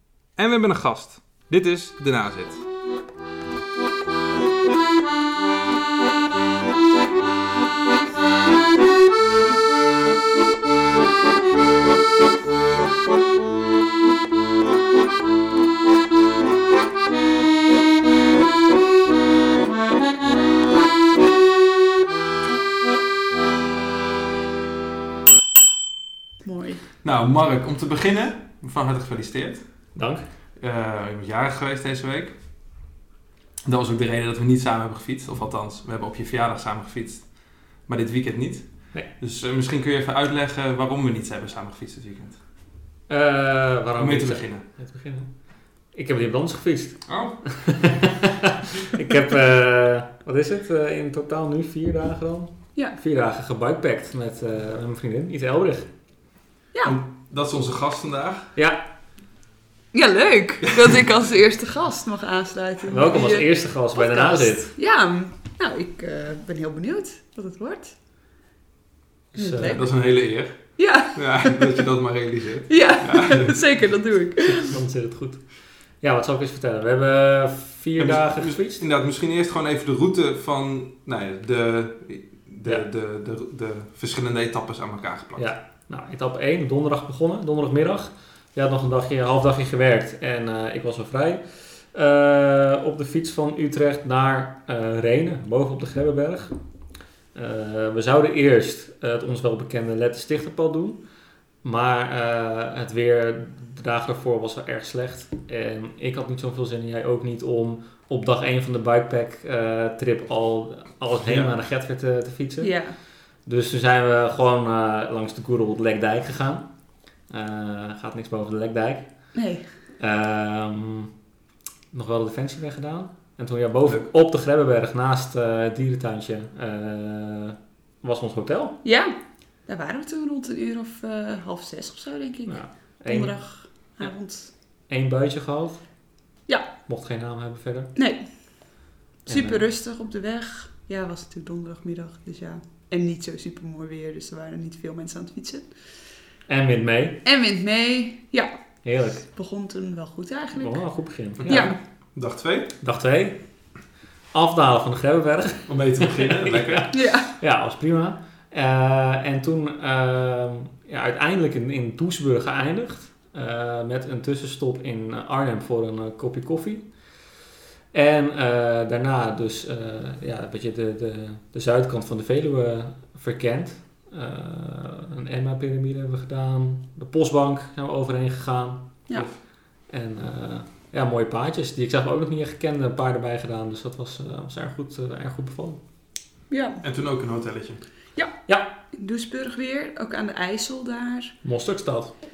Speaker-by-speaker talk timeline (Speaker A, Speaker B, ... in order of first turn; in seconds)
Speaker A: 0.3-2.6, 27.0-29.9, 30.6-32.4, 33.6-42.4, 44.0-44.6, 47.1-47.9, 56.8-58.5, 69.6-73.6, 78.0-85.5, 111.2-111.5, 151.4-152.7, 155.7-156.9, 186.8-187.8
Speaker B: 26.4-26.9, 56.7-57.0, 59.9-68.0, 69.3-70.1, 70.8-71.7, 72.7-74.7, 112.6-113.0, 119.3-119.7, 128.8-129.1, 129.7-134.5, 137.9-138.2, 139.2-145.7, 147.2-148.5, 149.2-150.8, 151.4-151.8, 156.9-157.3, 186.5-186.8, 188.9-191.3
Speaker C: 29.9-30.2, 43.1-45.4, 45.9-55.9, 58.5-58.8, 62.9-64.7, 69.3-69.8, 74.5-75.5, 76.0-78.8, 85.4-96.6, 97.3-101.0, 101.6-112.7, 113.5-116.7, 117.3-119.1, 120.0-121.1, 121.9-128.8, 132.5-133.4, 134.9-135.8, 136.8-137.9, 139.3-139.7, 146.5-147.2, 148.8-149.2, 150.6-151.7, 152.8-153.4, 154.3-166.9, 167.9-179.3, 179.9-185.8, 188.5-188.7, 191.4-192.1